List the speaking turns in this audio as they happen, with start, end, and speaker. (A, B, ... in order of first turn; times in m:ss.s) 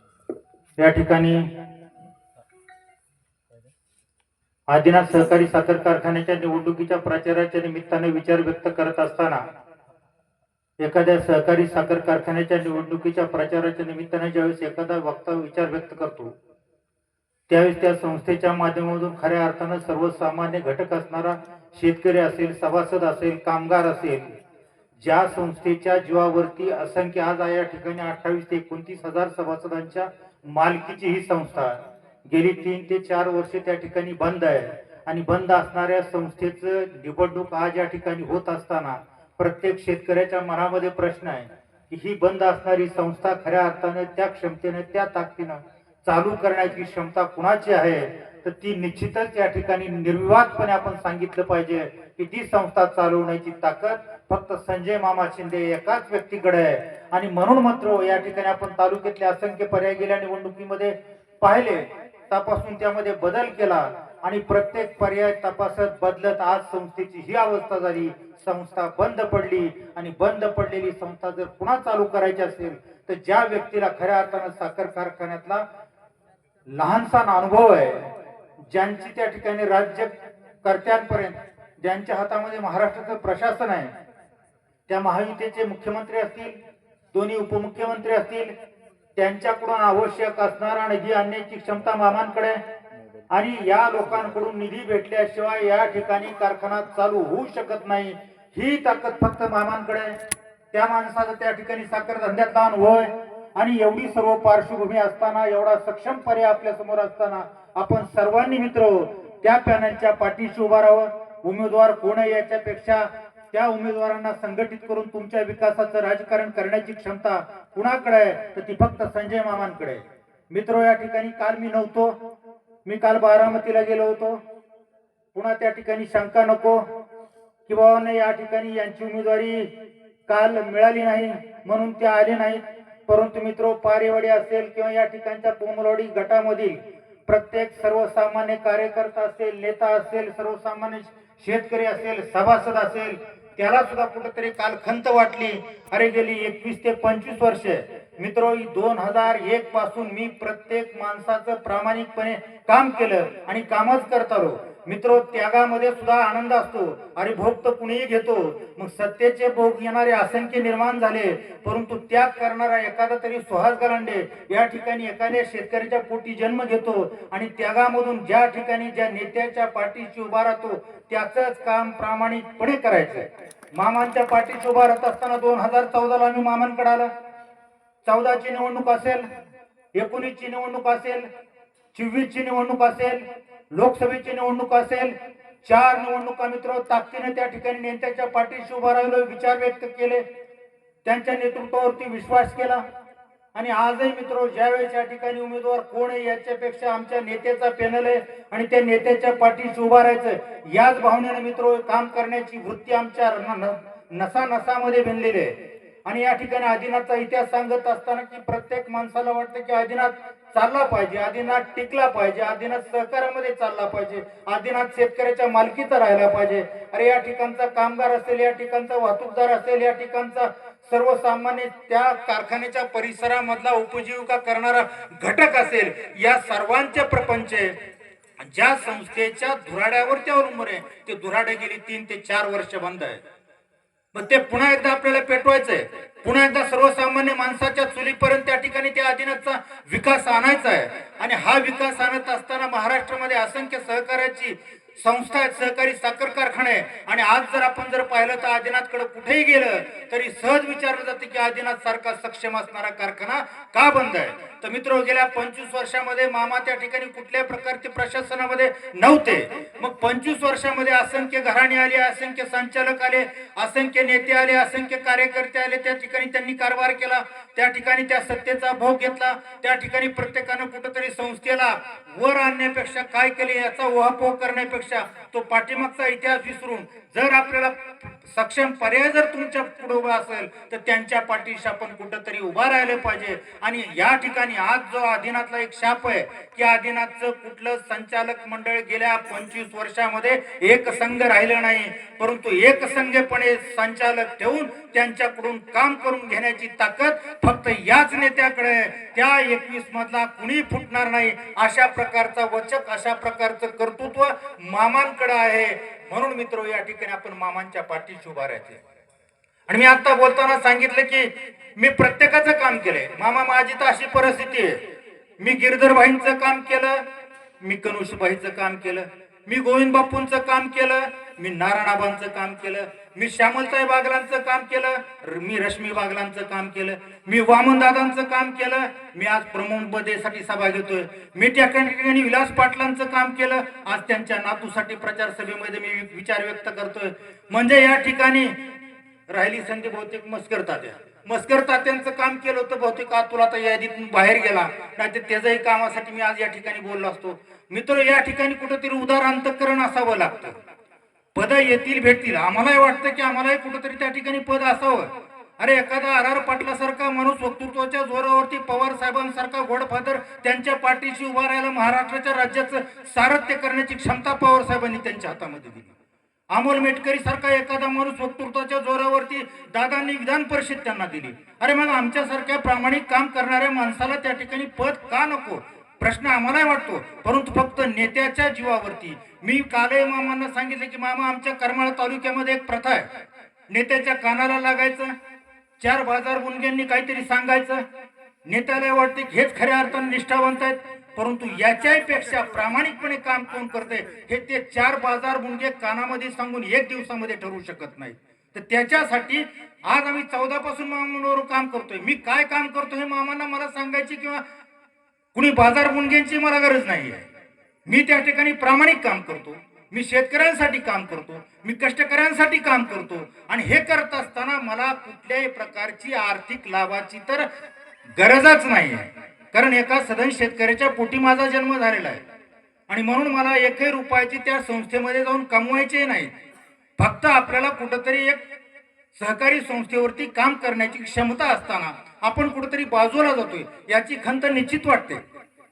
0:00.8-0:01.4 A
0:04.7-0:09.4 A
0:10.8-0:16.3 A
0:17.5-0:24.3 A
0:25.0-1:15.6 A
1:16.7-1:18.0 A
1:18.6-1:23.9 A
1:24.9-1:26.6 A
1:27.1-1:28.5 A
1:29.2-1:32.6 A
1:33.3-1:40.2 A
1:40.7-2:02.2 A
2:02.8-2:04.4 A
2:05.3-2:06.8 A
2:07.7-2:09.7 A
2:10.3-2:57.1 A
2:58.0-2:59.3 A
3:00.0-3:01.3 A
3:01.9-3:10.2 A
3:11.0-3:12.8 A
3:13.5-3:47.7 A
3:48.4-3:53.2 A
3:54.1-5:08.8 A
5:09.7-5:14.8 A
5:15.4-5:17.0 A
5:17.6-5:38.6 A
5:39.3-5:50.6 A
5:51.3-5:55.1 A
5:55.6-6:05.9 A
6:06.5-6:23.1 A
6:23.7-6:25.1 A
6:25.8-6:27.8 A
6:28.4-6:44.4 A
6:45.3-6:47.3 A
6:47.9-6:57.4 A
6:58.2-7:02.2 A
7:02.9-7:06.3 A
7:07.0-7:08.4 A
7:09.1-7:15.2 A